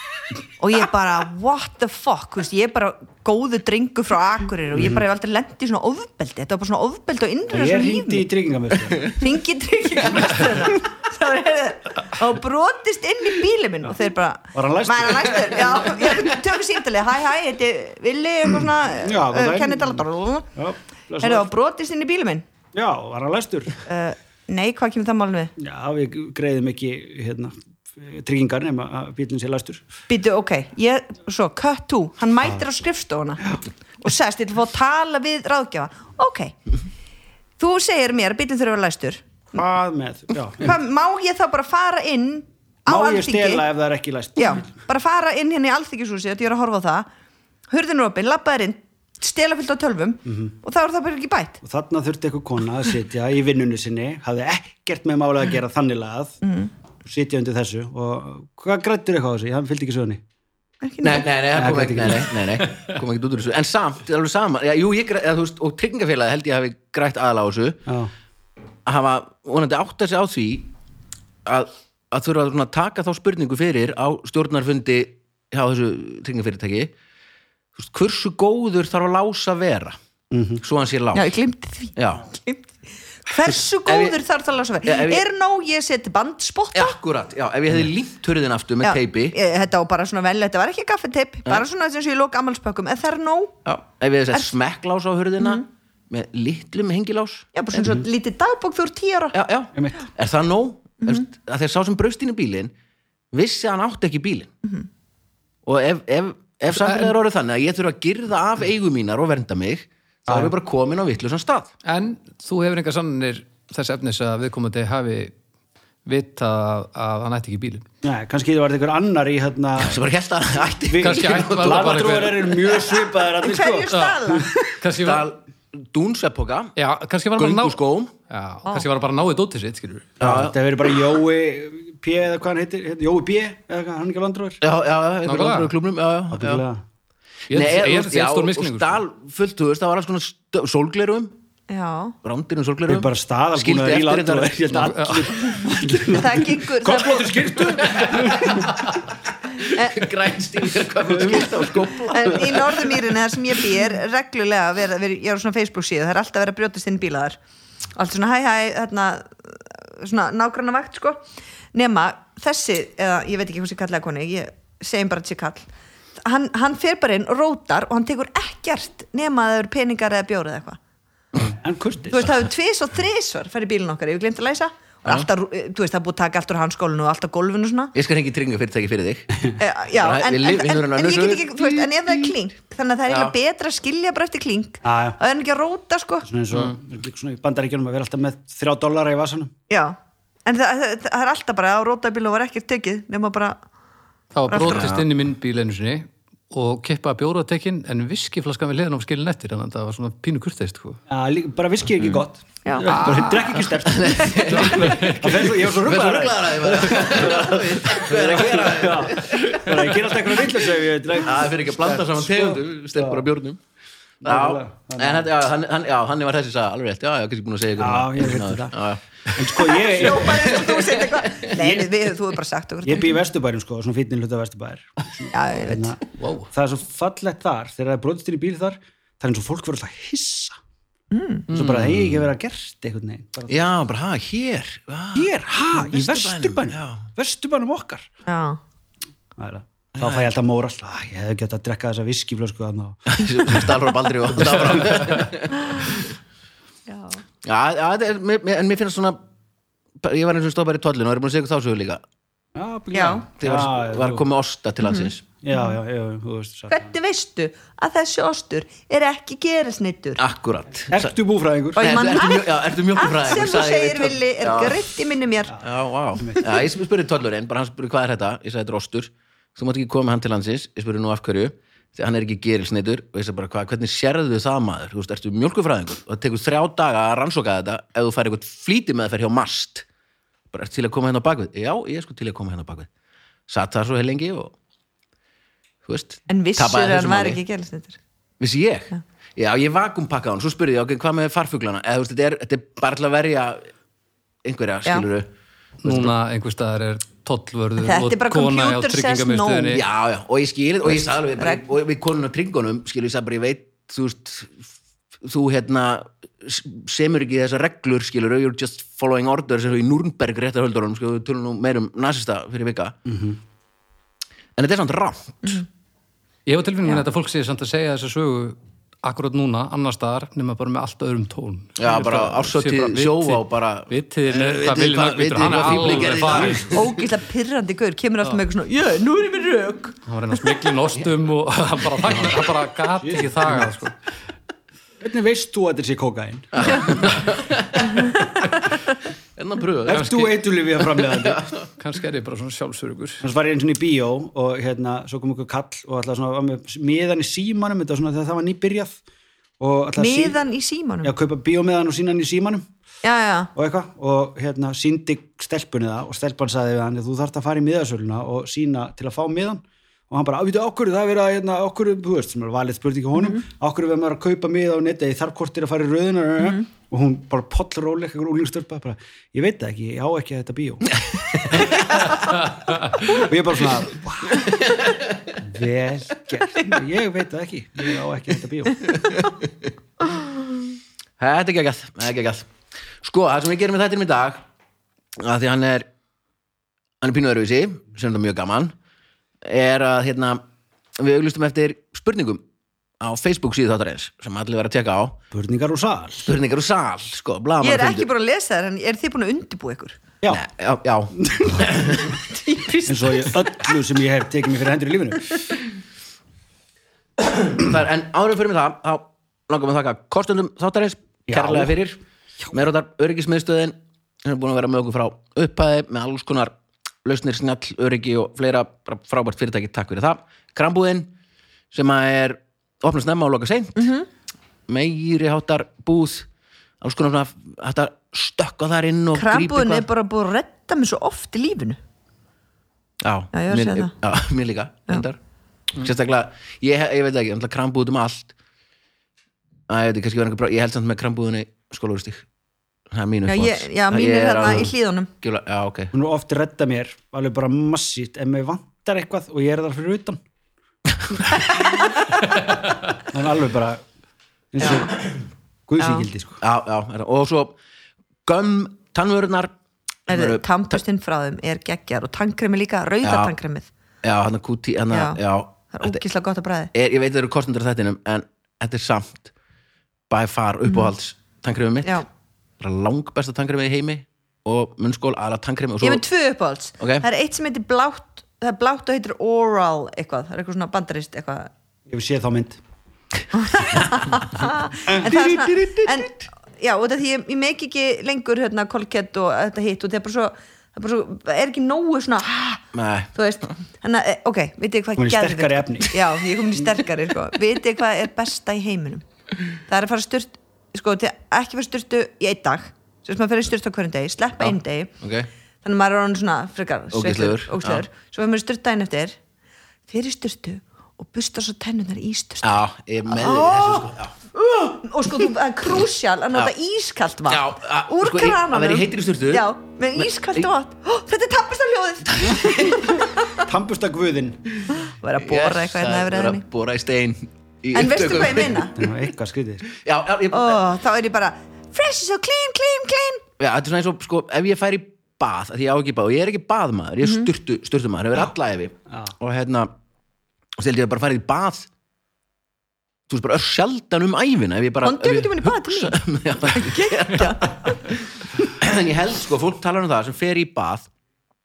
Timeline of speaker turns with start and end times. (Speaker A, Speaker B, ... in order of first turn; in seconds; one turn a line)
Speaker A: 0.6-8.2
Speaker B: 4.7-5.0
Speaker B: 7.5-9.2
Speaker A: 9.1-20.5
Speaker B: 14.5-16.1
Speaker B: 18.5-20.0
Speaker B: 20.6-21.5
Speaker A: 21.2-22.5
Speaker B: 22.7-23.8
Speaker A: 23.9-25.5
Speaker B: 25.6-29.9
Speaker A: 30.1-36.6
Speaker A: 37.6-39.3
Speaker B: 39.5-40.8
Speaker A: 40.6-43.6
Speaker B: 42.9-44.8
Speaker A: 44.4-47.1
Speaker A: 47.7-51.6
Speaker B: 50.2-50.5
Speaker B: 51.6-56.4
Speaker A: 56.4-56.7
Speaker B: 57.0-60.2
Speaker A: 60.8-61.3
Speaker C: 61.0-67.8
Speaker B: 61.5-62.4
Speaker B: 67.9-68.1
Speaker C: 68.9-70.7
Speaker C: 71.5-76.9
Speaker C: 77.8-80.0
Speaker B: 80.3-80.6
Speaker C: 80.6-81.3
Speaker A: 81.1-82.7
Speaker C: 82.0-82.3
Speaker A: 83.2-87.0
Speaker C: 83.5-84.2
Speaker C: 84.8-85.2
Speaker C: 86.7-89.4
Speaker A: 88.8-93.6
Speaker C: 93.7-97.5
Speaker A: 97.5-99.4
Speaker B: 97.7-98.1
Speaker C: 99.3-102.7
Speaker B: 99.8-100.0
Speaker C: 103.3-104.5
Speaker C: 105.7-111.7
Speaker D: 106.7-107.1
Speaker B: 110.3-110.5
Speaker D: 111.8-115.3
Speaker D: 116.0-117.8
Speaker B: 118.0-120.0
Speaker C: 119.8-121.9
Speaker B: 120.9-124.4
Speaker D: 121.0-122.7
Speaker A: 123.3-124.8
Speaker D: 123.9-125.3
Speaker C: 124.9-126.8
Speaker D: 126.8-130.1
Speaker C: 127.4-128.1
Speaker C: 130.2-130.6
Speaker B: 130.2-134.6
Speaker C: 134.6-136.7
Speaker D: 135.2-135.7
Speaker B: 136.3-136.8
Speaker D: 137.5-139.0
Speaker C: 137.5-141.3
Speaker A: 141.7-142.2
Speaker C: 142.2-144.6
Speaker B: 142.9-148.7
Speaker D: 144.7-145.8
Speaker A: 146.1-147.7
Speaker C: 147.8-149.0
Speaker C: 149.6-153.1
Speaker A: 149.6-150.0
Speaker B: 151.2-151.5
Speaker A: 152.1-157.4
Speaker A: 157.9-170.8
Speaker B: 171.5-172.3
Speaker A: 172.1-177.9
Speaker C: 177.9-182.3
Speaker A: 179.6-186.3
Speaker C: 183.1-183.4
Speaker B: 184.8-185.2
Speaker B: 186.2-189.5
Speaker A: 189.7-193.6
Speaker D: 194.3-201.0
Speaker A: 194.5-194.9
Speaker C: 194.6-195.1
Speaker B: 201.1-213.2
Speaker A: 202.7-203.4
Speaker D: 202.9-203.3
Speaker C: 203.8-209.9
Speaker D: 204.5-205.5
Speaker C: 211.2-213.6
Speaker B: 214.2-215.3
Speaker C: 214.2-221.3
Speaker B: 217.8-218.7
Speaker B: 219.3-220.7
Speaker A: 219.6-223.2
Speaker B: 221.5-221.9
Speaker B: 222.8-226.0
Speaker A: 225.3-226.0
Speaker D: 226.2-226.5
Speaker B: 226.5-230.6
Speaker A: 231.1-231.5
Speaker C: 231.5-232.3
Speaker B: 231.5-233.7
Speaker C: 233.5-237.1
Speaker B: 235.2-238.1
Speaker A: 238.3-238.6
Speaker B: 239.4-243.1
Speaker C: 240.0-240.3
Speaker C: 243.1-246.0
Speaker A: 246.9-247.2
Speaker C: 247.4-249.2
Speaker C: 250.0-252.0
Speaker B: 252.6-254.2
Speaker A: 252.9-253.2
Speaker C: 253.4-255.2
Speaker A: 254.8-255.8
Speaker B: 255.4-256.9
Speaker A: 256.7-260.2
Speaker C: 260.2-261.2
Speaker B: 260.9-262.2
Speaker C: 261.8-264.9
Speaker A: 261.8-265.6
Speaker C: 265.6-279.9
Speaker B: 266.2-266.5
Speaker C: 280.5-282.9
Speaker C: 283.5-284.6
Speaker C: 285.9-287.4
Speaker A: 286.3-288.0
Speaker C: 288.4-293.7
Speaker C: 294.4-295.3
Speaker D: 295.8-299.8
Speaker C: 295.8-296.1
Speaker A: 297.8-299.8
Speaker C: 299.7-304.7
Speaker A: 300.9-301.6
Speaker C: 305.2-313.0
Speaker B: 313.1-313.4
Speaker C: 314.6-315.6
Speaker D: 316.5-326.8
Speaker C: 321.8-326.9
Speaker B: 325.8-326.7
Speaker A: 326.7-330.0
Speaker D: 330.1-334.0
Speaker B: 333.0-333.7
Speaker B: 335.0-337.1
Speaker C: 336.5-338.1
Speaker C: 339.4-340.3
Speaker B: 339.9-341.4
Speaker D: 339.9-340.4
Speaker C: 341.0-341.7
Speaker D: 341.8-343.2
Speaker B: 343.2-349.0
Speaker B: 349.6-350.4
Speaker A: 350.0-351.1
Speaker B: 351.0-352.7
Speaker A: 353.0-353.5
Speaker B: 353.6-371.8
Speaker A: 363.2-363.4
Speaker C: 371.4-371.6
Speaker B: 373.1-374.5
Speaker C: 374.6-375.3
Speaker B: 375.4-378.9
Speaker C: 381.2-382.5
Speaker C: 383.0-384.4
Speaker C: 385.2-385.9
Speaker C: 387.0-388.7
Speaker C: 389.4-390.4
Speaker C: 391.0-392.4
Speaker C: 393.0-395.2
Speaker B: 395.3-396.3
Speaker C: 396.3-398.1
Speaker A: 397.6-400.0
Speaker C: 400.3-402.1
Speaker B: 401.2-401.7
Speaker A: 402.1-403.5
Speaker B: 402.9-405.4
Speaker C: 407.2-412.0
Speaker B: 411.3-411.7
Speaker C: 412.5-421.1
Speaker C: 421.7-423.9
Speaker A: 423.8-424.1
Speaker C: 424.7-426.3
Speaker C: 426.8-429.9
Speaker A: 429.1-431.8
Speaker C: 433.0-435.2
Speaker A: 433.3-433.9
Speaker C: 435.7-438.4
Speaker C: 439.7-442.3
Speaker C: 442.9-445.9
Speaker A: 443.3-445.1
Speaker B: 445.9-450.2
Speaker B: 453.1-453.8
Speaker B: 454.5-455.0
Speaker B: 455.7-456.4
Speaker A: 455.8-456.1
Speaker C: 456.4-457.6
Speaker C: 458.3-459.5
Speaker C: 460.1-460.8
Speaker A: 460.1-463.7
Speaker C: 463.0-463.3
Speaker C: 464.0-466.0
Speaker A: 464.9-466.7
Speaker C: 466.7-469.3
Speaker C: 470.1-472.0
Speaker A: 470.7-470.9
Speaker C: 472.6-476.0
Speaker A: 475.8-481.5
Speaker C: 476.8-477.1
Speaker B: 481.9-482.6
Speaker A: 483.3-504.9
Speaker B: 484.9-485.3
Speaker C: 485.0-486.3
Speaker C: 492.7-493.6
Speaker B: 495.0-496.1
Speaker C: 504.4-505.3
Speaker A: 505.6-509.2
Speaker C: 506.9-507.9
Speaker A: 509.9-513.9
Speaker C: 512.4-514.2
Speaker A: 514.5-523.5
Speaker C: 517.3-520.5
Speaker C: 522.1-522.9
Speaker B: 523.4-524.4
Speaker A: 524.7-526.4
Speaker C: 525.2-528.7
Speaker A: 527.7-528.8
Speaker B: 528.8-529.7
Speaker C: 529.7-530.6
Speaker A: 530.3-533.2
Speaker C: 533.4-539.7
Speaker A: 537.0-537.3
Speaker C: 540.6-541.7
Speaker C: 543.1-547.9
Speaker A: 544.8-548.0
Speaker C: 548.4-550.9